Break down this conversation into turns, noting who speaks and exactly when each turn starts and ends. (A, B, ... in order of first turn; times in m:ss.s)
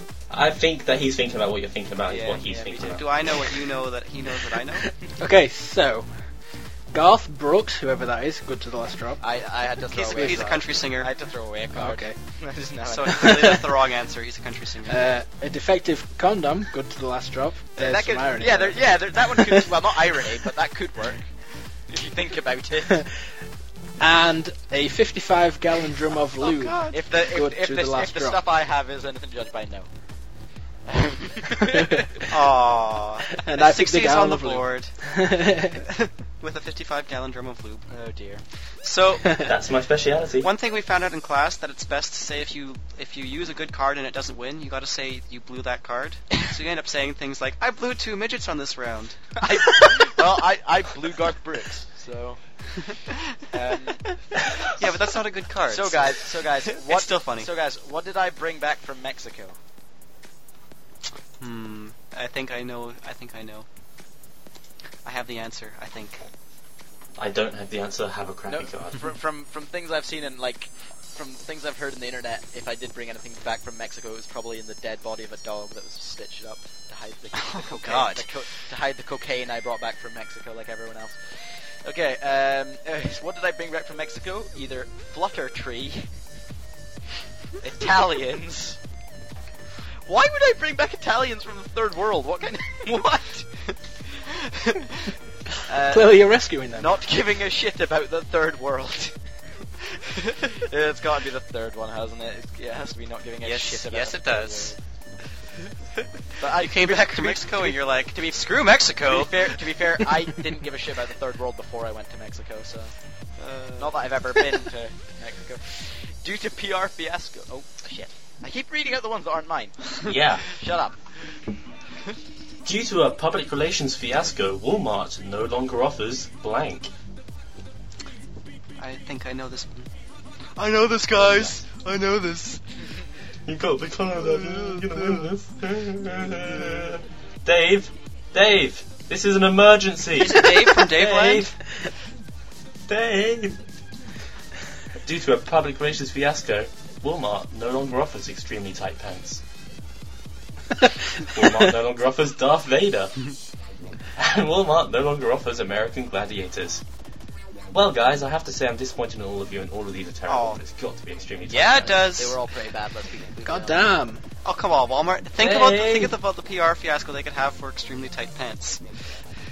0:00.3-0:03.1 A
0:02.1-0:03.0 B
0:02.8-0:04.9 C
0:05.2-0:06.1 D
0:06.9-0:09.2 D
0:09.2-0:13.6 B
0:09.9-0:11.1 C
0:11.7-0:12.2 D
0:12.8-0:15.0 C
0:13.1-0:13.7 D
0:14.9-0:19.7 D
0:17.8-0:21.3 B
0:21.9-0:23.0 B
0:24.0-0:28.4 D
0:26.4-0:27.0 C
0:26.9-0:29.9 B
0:30.9-0:32.3 B
0:31.6-0:32.2 D
0:32.2-0:34.9 C
0:33.3-0:35.8 D
0:35.8-0:37.9 C
0:37.9-0:38.4 B
0:38.8-0:39.4 C
0:39.4-0:40.5 A
0:40.4-0:49.2 C
0:49.4-0:52.4 B
0:52.8-0:53.2 C
0:53.5-0:54.1 B
0:54.6-0:57.5 C
0:55.7-0:59.6 B
1:01.4-1:03.6 C
1:05.0-1:06.2 C
1:07.2-1:09.1 A
1:08.5-1:26.1 B
1:17.4-1:18.3 C
1:27.6-1:28.8 B
1:30.0-1:33.5 B
1:35.6-1:39.2 B
1:35.9-1:36.9 D
1:40.4-1:44.8 B
1:43.4-1:44.7 C
1:46.4-1:48.5 B
1:46.4-1:49.6 C
1:49.0-1:52.9 B
1:53.4-1:54.6 C
1:53.8-2:00.9 B
2:00.0-2:00.4 A
2:02.6-2:06.9 A
2:08.8-2:09.9 C
2:10.6-2:12.6 C
2:11.2-2:11.6 A
2:13.4-2:21.5 A
2:14.2-2:15.3 C
2:20.2-2:21.5 C
2:22.9-2:23.6 A
2:25.0-2:29.4 A
2:31.2-2:33.2 A
2:34.2-2:36.8 A
2:37.7-2:42.1 A
2:40.3-2:40.6 C
2:41.5-2:42.4 C
2:42.1-2:43.9 B
2:43.4-2:44.2 D
2:44.4-2:48.8 C
2:45.4-2:46.2 A